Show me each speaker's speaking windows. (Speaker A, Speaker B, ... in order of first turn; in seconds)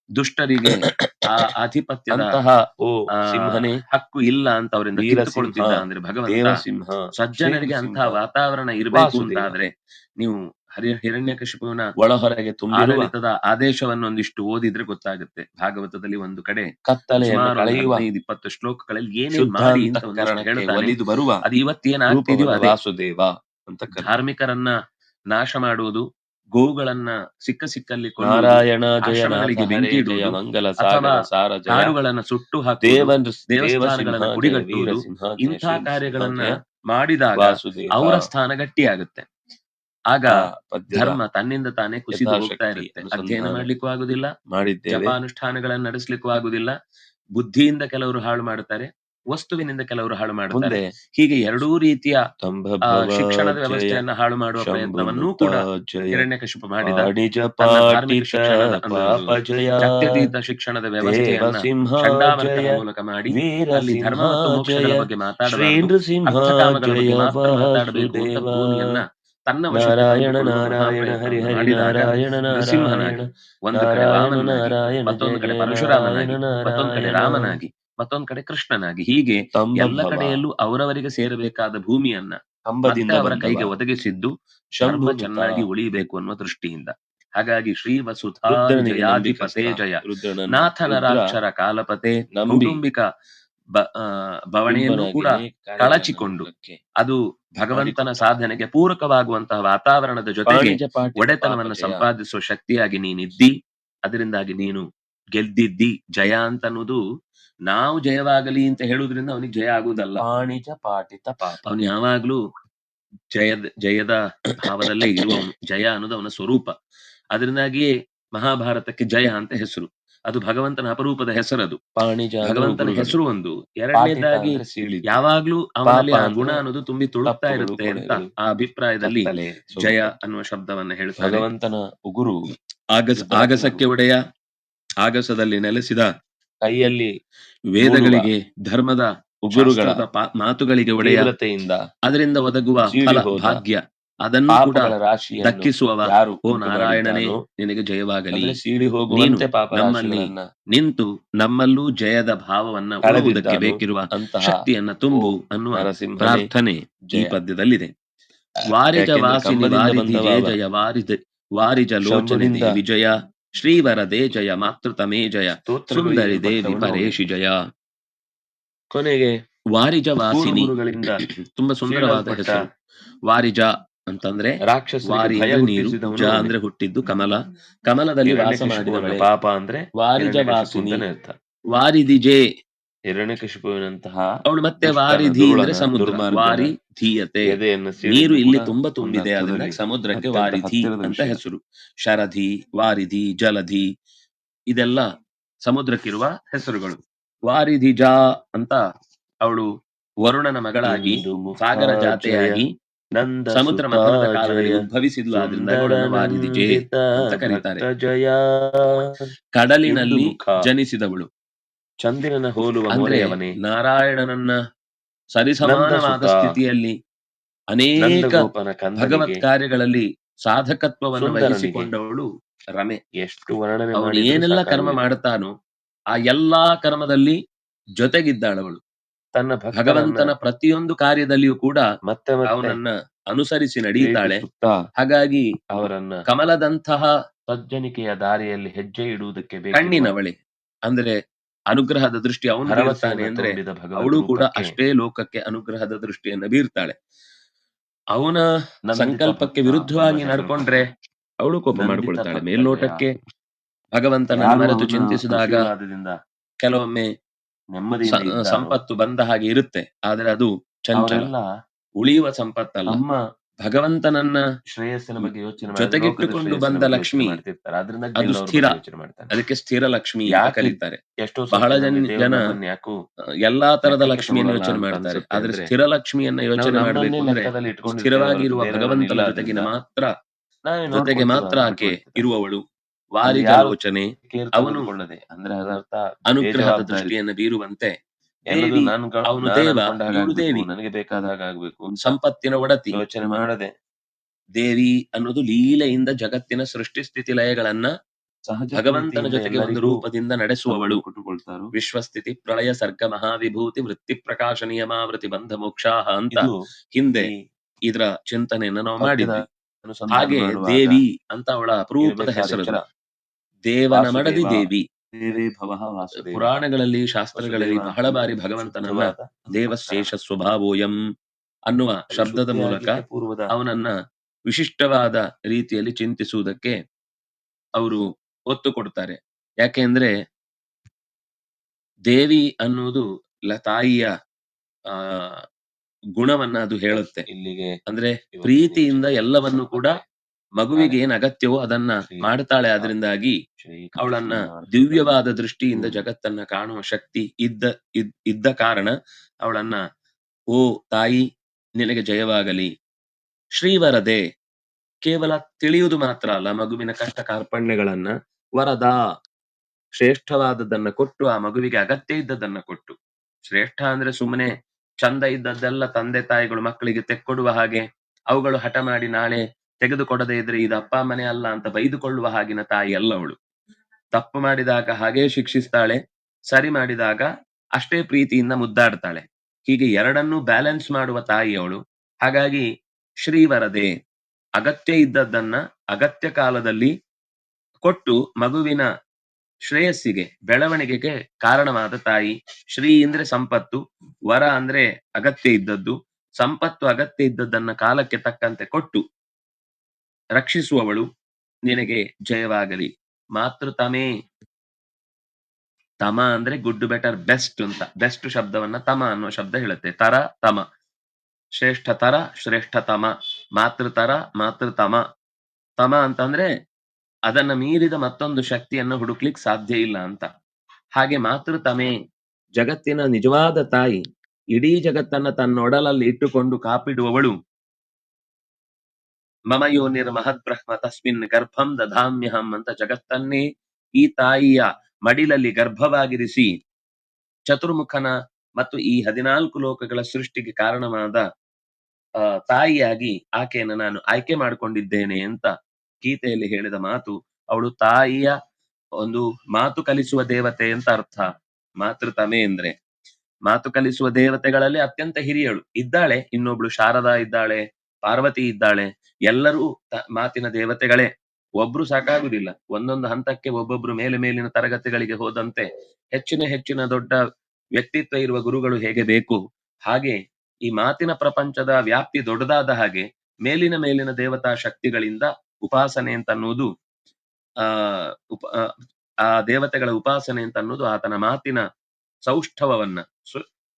Speaker A: 0.2-2.3, 3.1-6.6, 7.2-11.9, 12.7-22.8, 23.9-24.7, 25.3-39.3, 40.1-44.3, 44.9-46.8, 47.4-52.2, 52.9-84.3, 84.8-93.0, 93.8-103.5, 104.0-107.0, 107.7-110.3, 111.6-112.4, 113.3-116.7, 117.3-121.8, 122.4-131.5, 133.0-134.2, 135.0-136.1, 137.8-141.3, 142.1-148.6, 149.1-157.9, 158.7-167.6, 169.7-172.6, 173.2-179.3, 180.0-181.0, 181.7-182.4, 184.5-193.9, 194.7-195.1, 195.6-198.8, 200.2-202.7, 203.5-207.8, 209.6-211.3, 212.9-214.6, 215.3-216.9, 217.7-218.5, 219.0-223.0, 223.9-225.5, 226.2-227.4, 228.0-228.8, 229.7-231.9, 232.5-234.4, 235.0-237.1, 239.7-241.2, 241.7-246.9, 248.1-250.8, 251.4-253.1, 254.0-255.7, 256.6-257.1, 258.1-261.3, 262.0-263.0, 263.6-264.5, 265.2-267.4, 268.1-268.8, 269.3-271.0, 271.5-272.6, 273.4-280.1, 280.9-282.6, 283.2-284.9, 286.3-287.9, 288.5-290.7, 292.0-293.0, 294.6-297.9, 298.7-301.0, 301.7-307.3, 307.9-309.4, 310.1-312.8, 313.7-314.8, 316.1-321.0, 321.7-323.9, 324.5-326.8, 327.8-330.1, 332.1-334.1, 334.9-335.4, 336.2-337.3, 337.9-340.0, 340.6-343.4, 344.0-349.8, 350.5-351.2, 351.8-352.7, 353.6-354.2, 355.0-359.0, 360.0-363.0, 363.5-364.5, 365.0-373.4, 374.1-376.0, 376.5-377.2, 377.8-382.6, 383.2-383.9, 384.6-386.9, 387.8-388.9, 389.7-399.0, 400.4-401.1, 401.7-404.1, 406.0-410.6, 411.6-415.0, 415.8-416.5, 417.3-420.3, 421.0-421.9, 422.6-424.0, 424.5-427.4, 429.5-433.4, 434.0-436.5, 437.5-441.2, 442.3-448.3, 449.0-451.3, 451.8-452.7, 453.5-461.1, 461.6-467.2, 467.8-476.7, 477.6-478.5, 479.3-481.6, 482.2-483.4
Speaker B: 5.1-5.7, 6.3-7.0, 7.5-8.1, 8.9-9.4, 12.1-13.1, 16.9-18.0, 19.4-21.3, 22.6-23.8, 28.3-31.7, 32.9-36.2, 42.3-43.6, 44.6-44.9, 53.6-53.9, 54.7-56.0, 57.0-57.6, 59.4-59.6, 61.4-61.8, 63.6-64.3, 65.6-67.0, 70.2-71.7, 74.4-75.7, 79.9-80.3, 82.7-83.6, 84.9-85.5, 88.7-89.7, 90.8-91.2, 94.8-96.6, 100.5-101.9, 110.2-111.6, 122.6-123.1, 124.0-125.0, 125.9-126.5, 127.3-128.2, 129.2-129.6, 131.3-132.4, 133.5-133.8, 136.6-137.1, 137.9-138.2, 139.6-140.0, 141.1-141.8, 143.0-143.5, 144.6-147.3, 148.6-150.3, 153.1-153.8, 155.8-156.5, 159.1-160.5, 162.1-162.7, 165.7-167.1, 170.3-171.2, 171.9-172.6, 174.7-176.5, 178.3-181.3, 183.1-184.3, 185.1-186.7, 187.5-189.7, 190.2-191.3, 200.8-202.6, 203.2-204.7, 205.4-206.9, 207.5-208.7, 209.9-210.6, 212.0-213.5, 215.7-216.5, 218.0-219.4, 221.2-221.9, 223.2-225.0, 229.3-230.3, 232.1-232.8, 234.0-234.7, 235.8-236.1, 237.5-240.1, 242.7-244.7, 248.9-250.6, 251.8-253.0, 254.4-256.1, 257.7-258.8, 262.9-263.1, 264.7-269.3, 270.3-273.0, 273.9-275.7, 276.6-279.7, 280.6-282.2, 283.3-283.7, 284.3-287.1, 288.5-292.1, 293.0-293.7, 298.5-300.0, 300.8-301.7, 309.1-310.9, 312.1-312.8, 314.0-314.5, 315.2-316.0, 317.4-318.2, 318.8-319.2, 322.2-323.5, 337.3-337.7, 338.4-339.8, 344.7-345.0